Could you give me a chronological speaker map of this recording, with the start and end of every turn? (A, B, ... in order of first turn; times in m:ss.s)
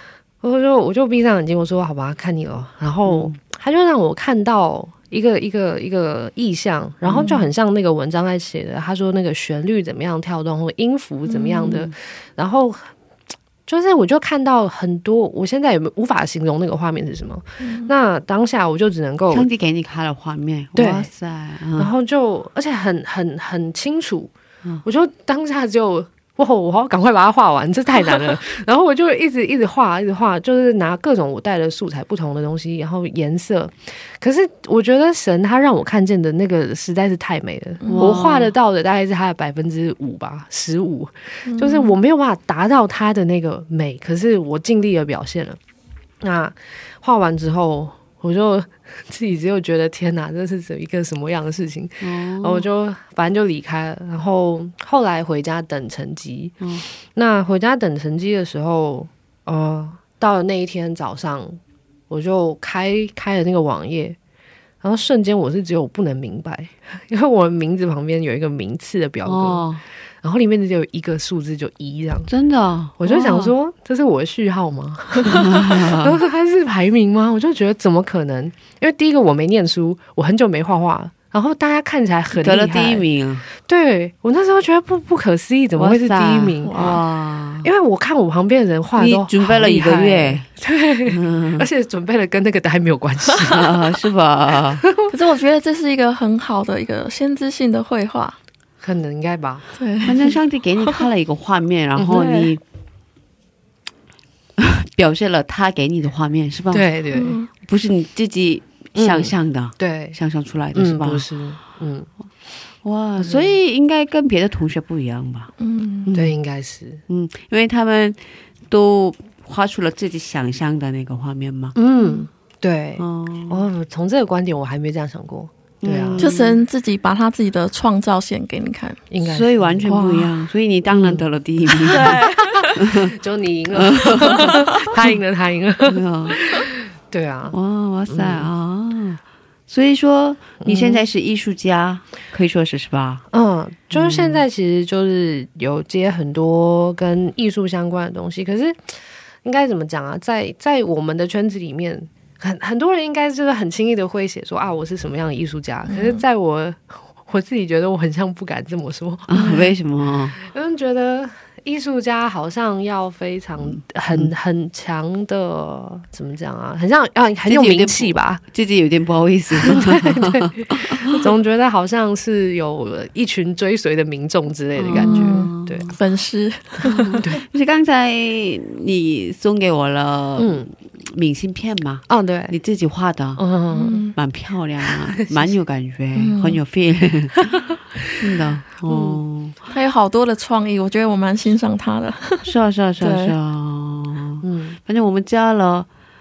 0:00.4-0:12.9 A
0:03.1-0:03.4 B
0:07.0-0:07.4 B
0:11.3-0:11.6 C
0:11.5-0:11.9 B
0:13.6-0:19.5 A
0:17.6-0:17.9 C
0:19.3-0:21.9 B
0:20.7-0:21.1 A
0:21.8-0:24.3 A
0:24.8-0:45.6 A
0:37.8-0:38.2 C
0:37.9-0:38.5 B
0:41.4-0:42.0 C
0:46.2-1:01.6 A
0:52.0-0:52.7 B
0:56.6-0:56.8 B
1:02.1-1:04.2 A
1:04.8-1:09.7 A
1:09.2-1:09.8 B
1:10.2-1:12.3 A
1:12.3-1:13.5 B
1:13.0-1:23.0 A
1:15.2-1:16.2 B
1:22.3-1:23.4 B
1:23.6-1:27.0 A
1:25.7-1:27.7 B
1:26.6-1:27.0 C
1:27.6-1:33.7 A
1:29.0-1:30.5 B
1:31.1-1:31.7 B
1:33.5-1:34.8 B
1:35.1-1:38.4 C
1:38.8-1:39.7 A
1:39.8-1:40.2 C
1:40.0-1:42.6 B
1:42.0-1:42.5 A
1:44.6-1:46.9 B
1:46.7-1:47.4 A
1:47.1-1:47.5 C
1:47.6-1:51.3 B
1:49.0-1:50.2 A
1:50.7-1:52.1 A
1:52.8-1:55.5 B
1:53.2-1:53.5 A
1:55.6-1:56.1 C
1:56.0-1:56.4 B
1:56.1-1:57.0 A
1:57.1-2:01.8 B
2:01.8-2:06.2 A
2:03.0-2:03.6 B
2:05.8-2:06.6 B
2:06.2-2:09.0 C
2:09.1-2:10.2 A
2:09.2-2:12.1 B
2:09.9-2:10.2 C
2:10.9-2:11.3 A
2:11.9-2:18.5 A
2:11.9-2:12.7 C
2:12.8-2:13.1 B
2:13.7-2:15.1 B
2:15.8-2:16.4 B
2:17.5-2:23.2 B
2:20.6-2:21.0 A
2:23.3-2:39.5 A
2:23.9-2:24.4 B
2:35.9-2:36.2 C
2:39.3-2:40.4 B
2:40.4-2:48.4 A
2:43.7-2:44.3 B
2:47.4-2:51.0 B
2:49.6-2:55.9 A
2:54.8-2:55.9 B
2:54.9-2:57.1 C
2:56.9-3:03.4 B
3:00.4-3:00.7 A
3:02.1-3:02.6 A
3:03.4-3:04.0 A
3:03.7-3:04.1 C
3:04.1-3:07.6 B
3:06.2-3:06.6 C
3:08.2-3:09.6 B
3:08.8-3:09.2 A
3:09.7-3:12.5 C
3:12.4-3:15.9 B
3:13.0-3:13.3 C
3:14.4-3:14.8 A